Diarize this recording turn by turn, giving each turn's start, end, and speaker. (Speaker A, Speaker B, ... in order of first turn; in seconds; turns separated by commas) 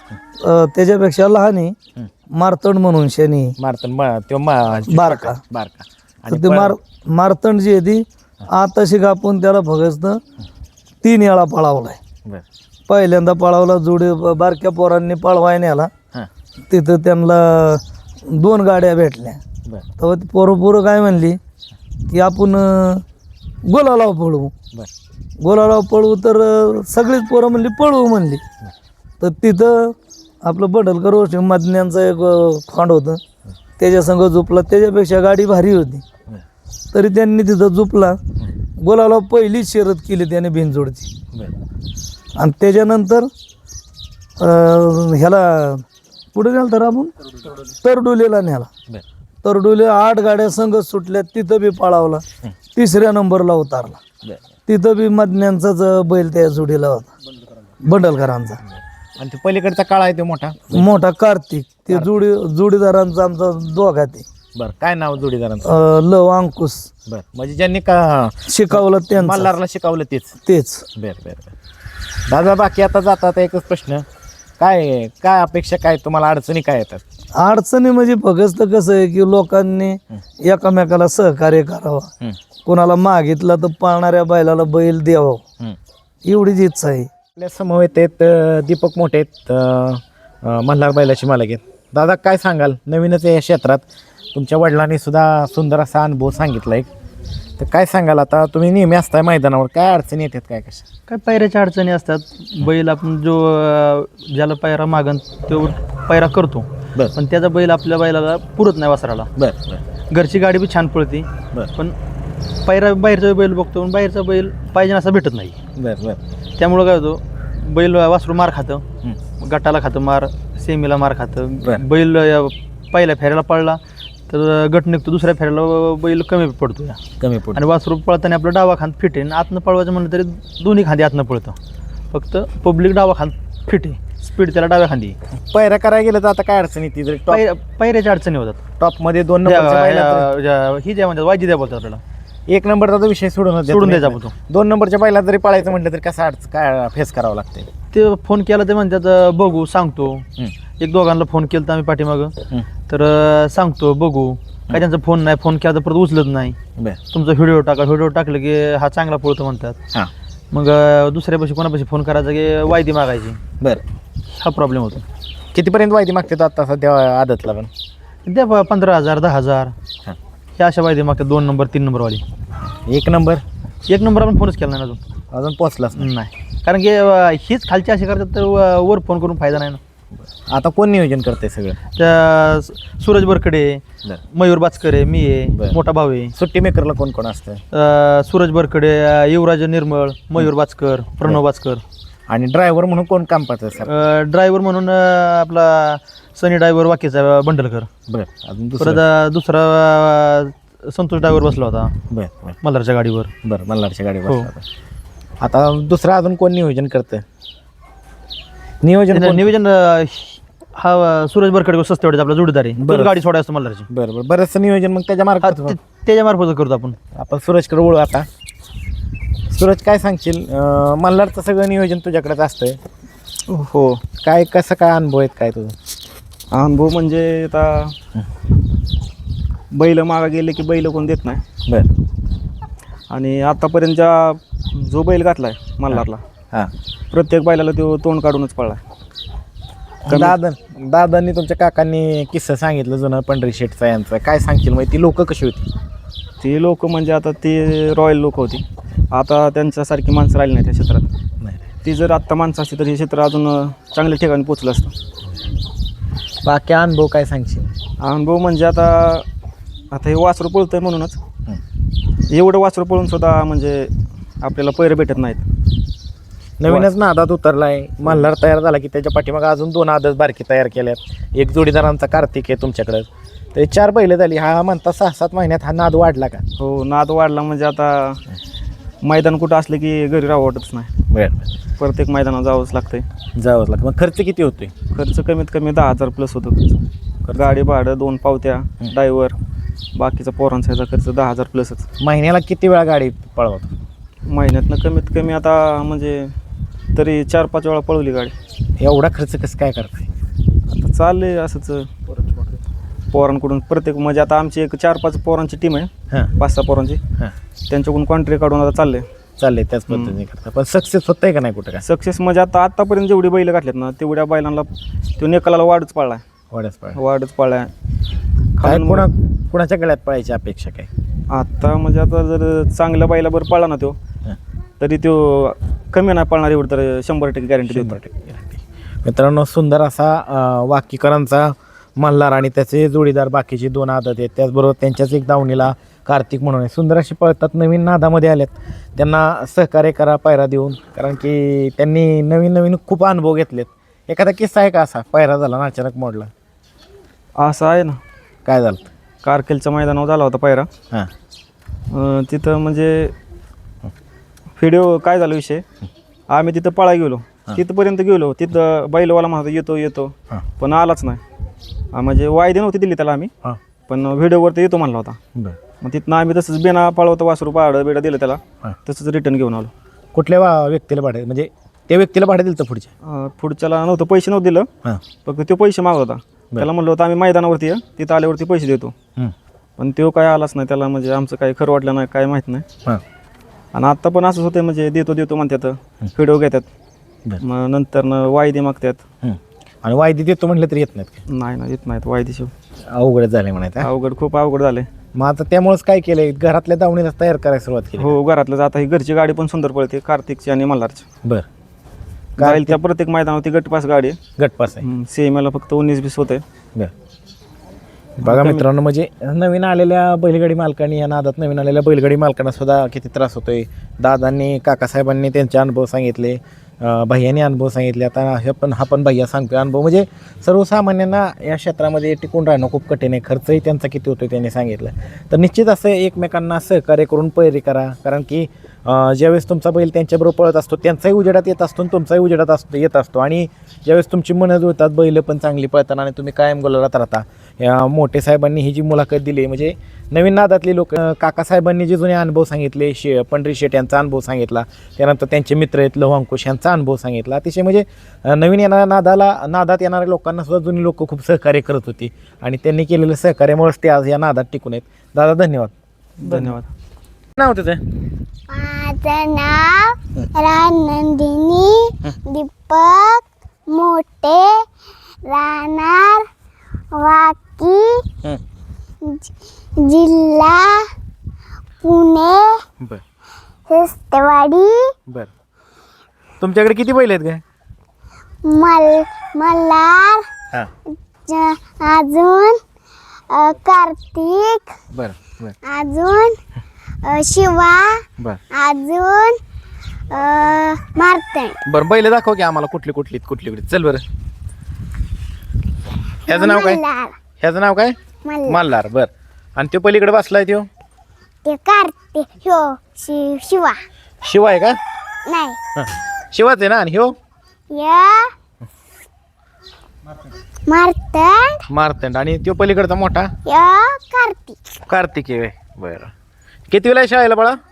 Speaker A: 0.4-1.8, Speaker A: 2.3-3.6, Speaker B: 3.6-6.8, Speaker A: 4.9-5.4, Speaker A: 6.3-10.2, Speaker A: 11.0-12.0, Speaker A: 12.9-15.9, Speaker A: 16.7-19.4, Speaker A: 20.0-21.4, Speaker A: 22.1-23.0, Speaker A: 23.6-24.5, Speaker A: 25.4-28.4, Speaker A: 29.2-33.2, Speaker A: 33.8-36.0, Speaker A: 36.9-38.2, Speaker A: 38.8-41.1, Speaker A: 42.4-43.3, Speaker A: 44.4-48.7, Speaker A: 49.4-52.2, Speaker A: 52.8-54.0, Speaker A: 54.7-57.1, Speaker A: 57.8-58.6, Speaker B: 59.2-60.9, Speaker A: 60.7-64.2, Speaker B: 61.9-62.2, Speaker B: 64.5-65.7, Speaker A: 65.6-66.9, Speaker B: 67.1-70.4, Speaker A: 68.5-69.5, Speaker A: 70.4-70.8, Speaker B: 71.0-71.5, Speaker B: 72.3-74.0, Speaker B: 74.6-77.0, Speaker A: 77.4-82.1, Speaker A: 82.7-85.4, Speaker A: 86.2-87.1, Speaker B: 87.4-96.9, Speaker B: 97.6-100.9, Speaker C: 101.1-109.3, Speaker B: 109.4-109.8, Speaker C: 110.1-112.0, Speaker C: 112.6-115.6, Speaker B: 115.8-116.2, Speaker C: 116.6-118.8, Speaker C: 119.4-127.0, Speaker B: 127.2-127.6, Speaker C: 127.5-131.6, Speaker C: 132.1-135.2, Speaker B: 135.5-137.4, Speaker C: 137.3-138.6, Speaker B: 138.8-140.3, Speaker C: 139.4-142.0, Speaker B: 142.5-147.7, Speaker C: 143.7-144.3, Speaker C: 147.9-150.2, Speaker C: 150.8-152.3, Speaker C: 152.9-156.6, Speaker C: 157.1-159.8, Speaker C: 160.5-163.4, Speaker C: 164.3-165.0, Speaker B: 165.5-167.7, Speaker C: 168.2-169.7, Speaker C: 170.6-172.2, Speaker B: 172.9-173.4, Speaker C: 173.9-175.0, Speaker B: 175.3-176.1, Speaker C: 176.0-179.8, Speaker B: 180.5-181.8, Speaker C: 182.0-186.3, Speaker B: 186.3-187.6, Speaker C: 187.7-191.8, Speaker B: 192.3-193.9, Speaker C: 193.8-197.9, Speaker B: 198.1-199.0, Speaker C: 198.8-201.9, Speaker B: 202.1-202.6, Speaker C: 202.6-203.3, Speaker B: 203.4-204.6, Speaker B: 205.4-207.2, Speaker B: 208.8-209.5, Speaker C: 209.1-213.9, Speaker B: 212.8-213.1, Speaker B: 213.9-215.8, Speaker C: 215.4-217.0, Speaker B: 217.1-218.3, Speaker B: 219.5-222.8, Speaker D: 223.5-224.0, Speaker B: 224.2-225.8, Speaker D: 226.5-228.0, Speaker D: 229.7-231.4, Speaker D: 233.1-236.2, Speaker B: 235.9-236.7, Speaker D: 237.1-238.8, Speaker B: 240.1-245.7, Speaker D: 240.1-240.4, Speaker D: 246.4-251.1, Speaker D: 251.8-254.9, Speaker B: 256.4-257.7, Speaker D: 258.0-259.3, Speaker D: 259.9-261.2, Speaker D: 262.3-265.5, Speaker B: 266.6-276.4, Speaker D: 276.6-278.2, Speaker D: 279.0-280.9, Speaker B: 281.1-281.5, Speaker D: 281.8-283.1, Speaker B: 283.4-284.7, Speaker D: 284.9-286.8, Speaker B: 287.2-287.5, Speaker D: 287.3-289.4, Speaker D: 289.9-291.9, Speaker B: 292.0-293.7, Speaker D: 294.3-296.3, Speaker D: 296.9-298.4, Speaker B: 298.8-300.1, Speaker D: 300.7-302.5, Speaker D: 303.1-307.0, Speaker D: 307.7-309.1, Speaker B: 309.4-311.9, Speaker D: 309.9-310.2, Speaker D: 311.8-316.2, Speaker B: 316.5-317.0, Speaker D: 317.0-317.7, Speaker D: 318.6-319.1, Speaker B: 318.6-320.9, Speaker D: 321.3-324.0, Speaker D: 324.8-328.0, Speaker B: 327.7-346.3, Speaker D: 347.4-348.0, Speaker B: 348.4-348.9, Speaker D: 349.2-350.7, Speaker D: 351.9-353.1, Speaker D: 354.6-355.6, Speaker D: 356.3-361.2, Speaker D: 361.9-363.3, Speaker D: 363.9-365.2, Speaker D: 365.8-369.7, Speaker B: 370.1-372.9, Speaker D: 373.1-374.7, Speaker D: 375.2-378.9, Speaker D: 379.8-382.7, Speaker D: 383.7-386.7, Speaker D: 387.4-389.0, Speaker B: 389.2-391.2, Speaker D: 391.3-392.5, Speaker B: 392.9-393.9, Speaker D: 393.8-394.9, Speaker B: 395.1-398.1, Speaker D: 398.0-401.1, Speaker B: 402.4-402.8, Speaker D: 402.4-404.2, Speaker B: 404.4-404.9, Speaker D: 404.8-406.4, Speaker B: 408.2-455.7, Speaker D: 408.2-408.6, Speaker D: 456.2-456.7, Speaker C: 456.3-456.6, Speaker B: 457.4-458.0, Speaker E: 458.5-464.7, Speaker E: 465.2-466.3, Speaker E: 466.9-468.1, Speaker E: 469.0-470.9, Speaker E: 471.8-472.6, Speaker E: 473.7-474.9, Speaker B: 476.4-477.4, Speaker E: 478.4-480.3, Speaker E: 481.3-482.6, Speaker E: 483.3-484.8, Speaker B: 484.9-485.6, Speaker E: 485.6-486.4, Speaker E: 487.0-489.4, Speaker E: 490.1-491.6, Speaker B: 491.7-494.0, Speaker B: 496.3-496.8, Speaker E: 496.3-497.2, Speaker B: 497.4-498.0, Speaker E: 498.2-498.6, Speaker B: 498.5-500.7, Speaker E: 501.4-503.8, Speaker B: 504.2-504.8, Speaker E: 505.3-505.6, Speaker B: 505.8-507.1, Speaker E: 507.7-508.3, Speaker E: 510.7-511.6, Speaker B: 511.7-513.3, Speaker E: 513.5-514.7, Speaker B: 514.9-516.1, Speaker B: 516.7-517.6